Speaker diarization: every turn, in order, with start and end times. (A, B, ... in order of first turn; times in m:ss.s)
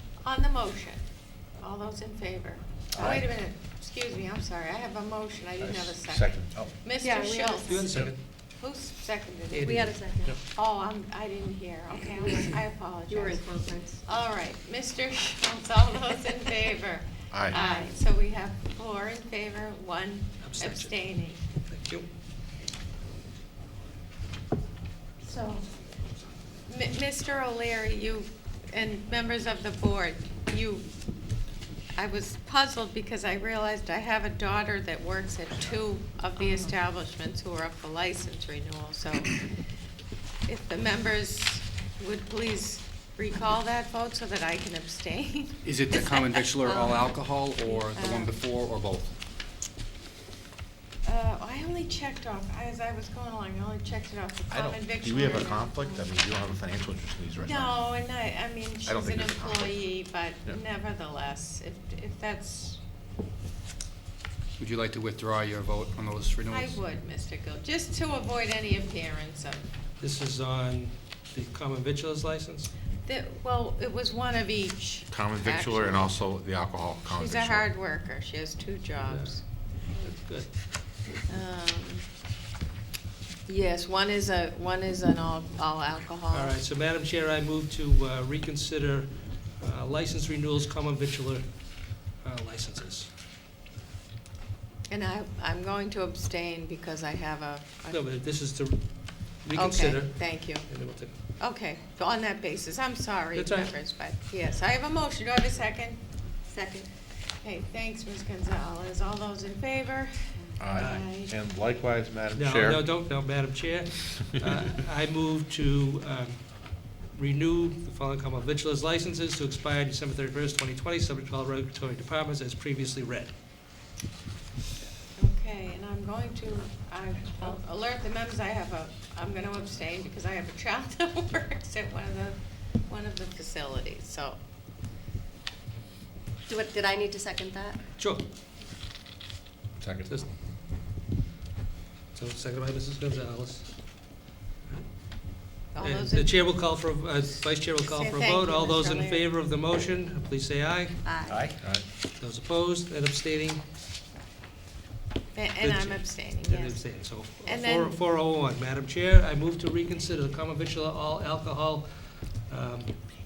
0:00.2-0:01.0 A
0:01.6-0:13.4 A
0:02.9-0:03.3 B
0:05.6-0:06.7 B
0:07.0-0:08.0 C
0:07.6-0:08.2 D
0:09.5-0:10.4 D
0:09.6-0:10.4 C
0:12.2-0:12.6 C
0:13.1-0:14.0 C
0:14.0-0:21.4 A
0:17.3-0:17.6 B
0:17.5-0:17.9 C
0:20.4-0:21.0 D
0:21.7-0:22.1 D
0:25.2-0:25.7 A
0:26.7-0:30.9 A
0:31.9-0:39.5 A
0:36.4-0:36.7 C
0:40.4-0:46.5 A
0:45.6-0:49.1 E
0:46.6-0:47.1 C
0:47.6-0:48.4 A
0:51.0-0:56.1 A
0:54.5-0:57.7 B
0:57.4-1:02.8 A
0:58.8-0:59.8 B
1:04.6-1:06.8 E
1:06.5-1:09.6 A
1:10.0-1:12.7 D
1:13.0-1:16.1 A
1:15.1-1:17.7 B
1:17.1-1:19.4 A
1:19.1-1:20.5 D
1:21.3-1:22.0 A
1:23.4-1:26.6 A
1:26.3-1:33.1 D
1:34.9-1:38.0 A
1:37.9-1:41.1 D
1:39.5-1:40.7 A
1:41.4-1:46.0 A
1:43.4-1:43.7 D
1:46.5-1:46.9 C
1:47.4-1:51.4 A
1:50.6-1:52.9 B
1:50.8-1:51.1 D
1:52.3-2:03.3 D
2:05.2-2:14.4 A
2:16.5-2:17.8 C
2:18.0-2:18.2 D
2:19.8-2:20.2 B
2:22.1-2:24.2 D
2:25.7-2:26.6 A
2:25.8-2:31.0 D
2:27.8-2:29.2 A
2:31.0-2:31.5 C
2:31.3-2:31.8 B
2:32.2-2:33.6 D
2:35.3-2:36.8 A
2:35.6-2:42.9 D
2:37.4-2:38.0 A